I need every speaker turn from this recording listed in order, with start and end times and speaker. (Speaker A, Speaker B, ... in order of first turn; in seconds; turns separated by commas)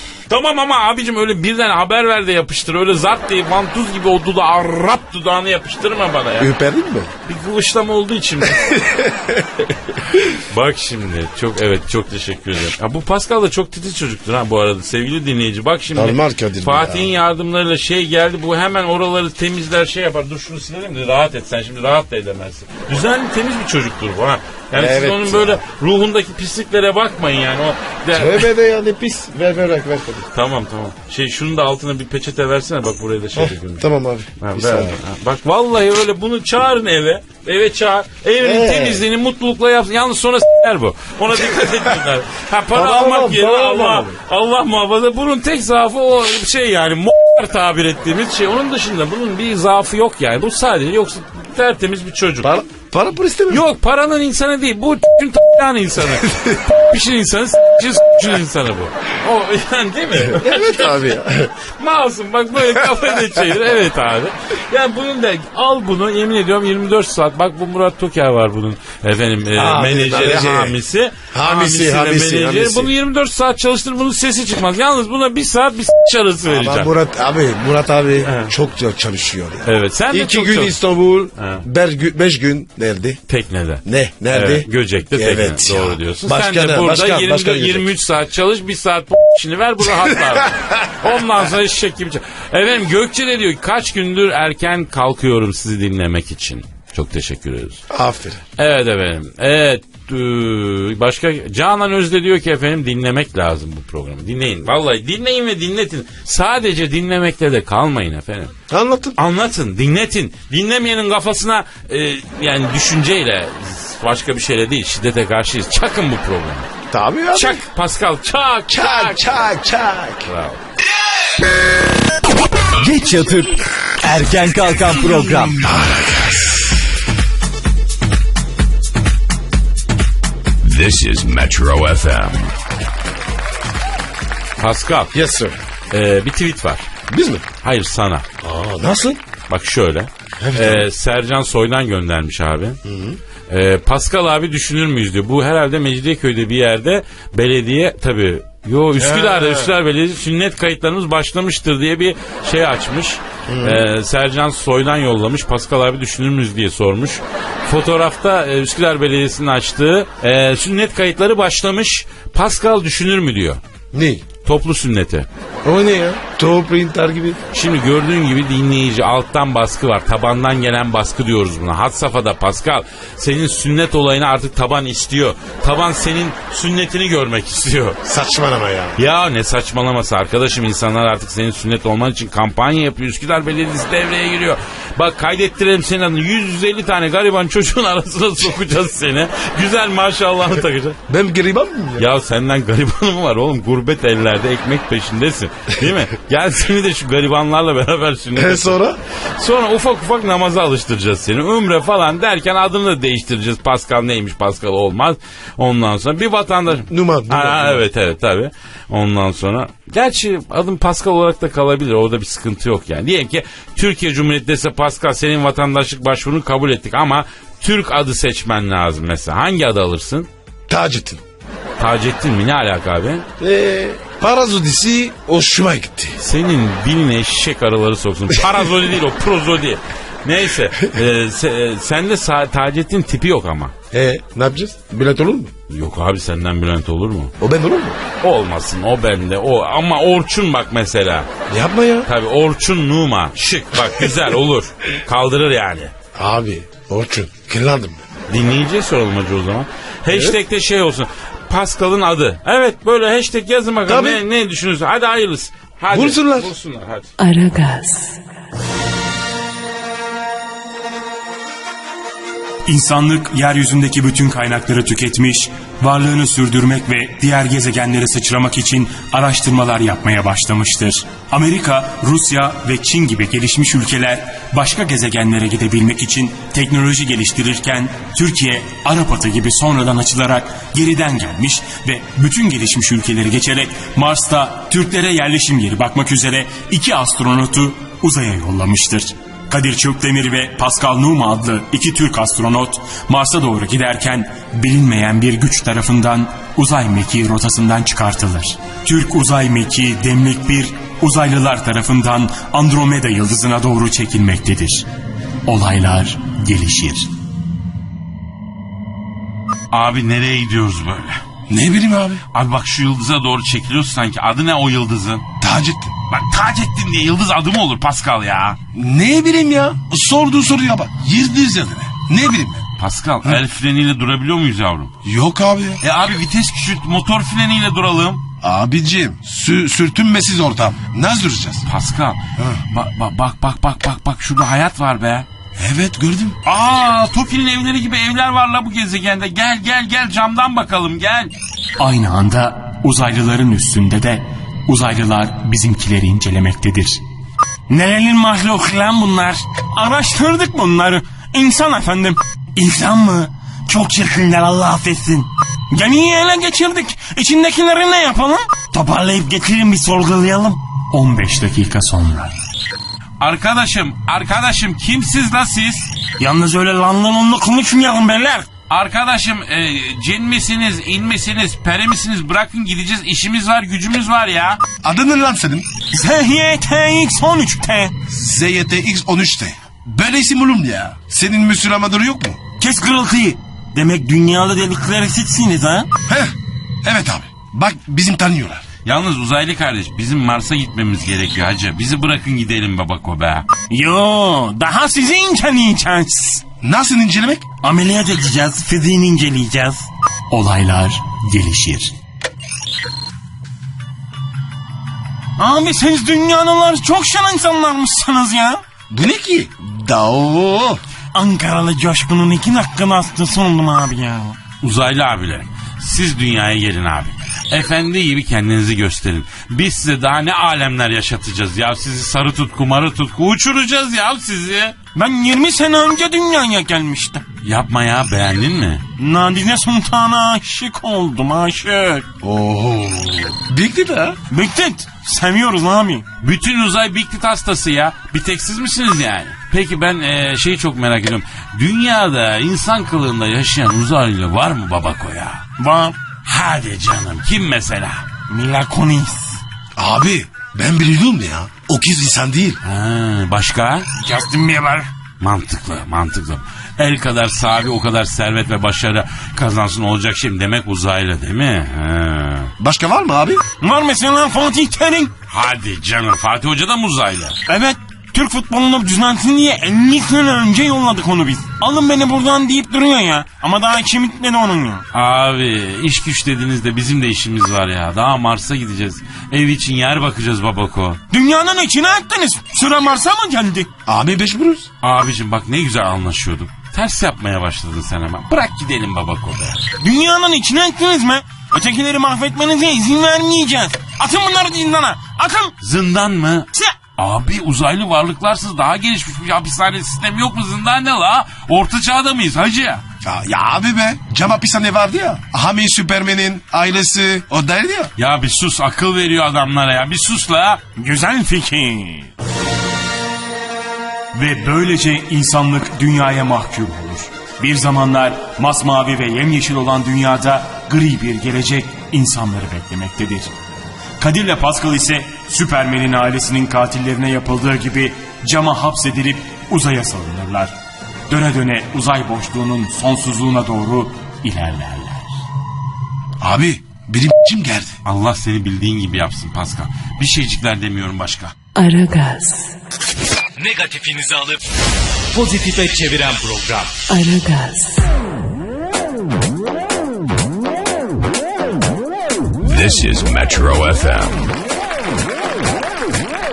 Speaker A: 0.3-6.5, Speaker B: 6.4-7.1, Speaker A: 7.2-8.8, Speaker B: 8.4-10.3, Speaker A: 10.4-28.5, Speaker B: 15.9-17.1, Speaker B: 24.7-25.6, Speaker B: 28.1-30.3, Speaker A: 30.3-33.9, Speaker B: 33.3-35.0, Speaker A: 34.4-52.5, Speaker B: 38.4-39.0, Speaker B: 42.7-44.1, Speaker B: 52.4-53.6, Speaker A: 53.5-76.9, Speaker B: 56.3-56.6, Speaker B: 60.2-61.5, Speaker B: 69.5-70.8, Speaker B: 71.3-72.9, Speaker B: 76.5-83.2, Speaker A: 78.2-78.5, Speaker A: 79.6-80.8, Speaker A: 81.4-81.6, Speaker A: 83.3-97.8, Speaker B: 83.8-87.9, Speaker B: 90.3-90.8, Speaker B: 97.9-98.4, Speaker A: 98.6-108.5, Speaker B: 108.7-109.2, Speaker A: 109.2-116.7, Speaker B: 116.9-117.7, Speaker A: 117.3-119.4, Speaker B: 118.7-120.3, Speaker A: 120.2-120.6, Speaker C: 122.8-125.6, Speaker B: 125.6-126.7, Speaker D: 130.6-132.5, Speaker A: 134.6-135.1, Speaker B: 135.1-135.6, Speaker A: 135.9-136.9, Speaker B: 137.1-137.4, Speaker A: 137.6-138.2, Speaker B: 138.4-139.2, Speaker A: 139.5-142.8, Speaker B: 140.4-140.9, Speaker B: 142.8-143.2, Speaker A: 143.5-163.6, Speaker B: 149.0-149.7, Speaker B: 153.5-153.8, Speaker B: 163.9-164.2, Speaker A: 164.4-165.3, Speaker B: 165.6-167.4, Speaker A: 167.5-178.0, Speaker B: 178.0-179.0, Speaker A: 179.0-191.0, Speaker B: 191.1-192.1, Speaker A: 192.0-198.8, Speaker B: 198.3-199.0, Speaker A: 199.4-220.3, Speaker B: 206.9-207.8, Speaker B: 220.7-221.2, Speaker A: 221.8-223.2, Speaker B: 223.4-226.2, Speaker A: 226.2-233.7, Speaker B: 233.9-235.5, Speaker A: 235.7-237.3, Speaker B: 237.4-238.0, Speaker A: 238.2-241.3, Speaker B: 241.5-242.1, Speaker A: 242.1-245.9, Speaker B: 246.1-248.0, Speaker A: 248.3-257.1, Speaker B: 250.1-250.4, Speaker B: 253.9-254.2, Speaker B: 255.9-256.5, Speaker E: 257.2-258.2, Speaker F: 262.6-304.9, Speaker F: 305.5-307.1, Speaker A: 309.7-311.2, Speaker B: 311.5-312.2, Speaker A: 312.3-315.2, Speaker B: 315.4-315.9, Speaker A: 316.1-318.6, Speaker B: 318.7-322.6, Speaker A: 322.8-324.9, Speaker B: 325.0-325.8, Speaker A: 325.8-328.2, Speaker B: 328.4-331.6, Speaker A: 331.6-335.3, Speaker B: 332.4-332.6, Speaker B: 335.6-336.4, Speaker A: 336.4-341.3, Speaker F: 341.8-347.0, Speaker F: 347.7-362.3, Speaker A: 363.2-365.9, Speaker F: 366.2-368.5, Speaker A: 368.7-374.6, Speaker B: 374.8-375.7, Speaker F: 375.9-377.9, Speaker B: 378.1-382.4, Speaker F: 382.6-385.9, Speaker B: 386.1-388.6, Speaker A: 388.8-393.5, Speaker F: 393.7-396.4, Speaker B: 396.6-397.4, Speaker F: 397.6-401.9, Speaker F: 405.4-408.6, Speaker B: 408.9-410.8, Speaker F: 411.1-414.4, Speaker A: 414.6-424.8, Speaker F: 424.9-427.2, Speaker A: 427.4-428.8, Speaker F: 429.0-432.0, Speaker B: 432.2-434.2, Speaker F: 434.3-436.0, Speaker A: 436.2-445.4, Speaker F: 445.6-445.9, Speaker A: 446.2-448.0, Speaker F: 448.3-449.4, Speaker B: 449.8-452.6, Speaker A: 452.6-453.9, Speaker F: 454.0-454.9, Speaker A: 455.2-462.5, Speaker B: 462.6-463.4, Speaker F: 463.6-465.1, Speaker A: 465.3-467.4, Speaker F: 467.5-474.8, Speaker A: 474.9-481.0, Speaker F: 481.1-483.7, Speaker B: 483.9-484.7, Speaker A: 484.8-489.6, Speaker F: 489.8-495.5, Speaker A: 495.6-502.8, Speaker B: 503.0-507.9, Speaker A: 508.0-510.6, Speaker F: 510.8-512.1, Speaker F: 514.1-523.3, Speaker F: 524.0-530.5, Speaker F: 531.1-535.1, Speaker B: 536.2-537.8, Speaker A: 537.8-541.3, Speaker E: 541.5-542.5, Speaker F: 543.4-544.4, Speaker F: 545.1-546.7, Speaker C: 545.3-546.0, Speaker E: 546.9-547.9, Speaker D: 552.4-554.3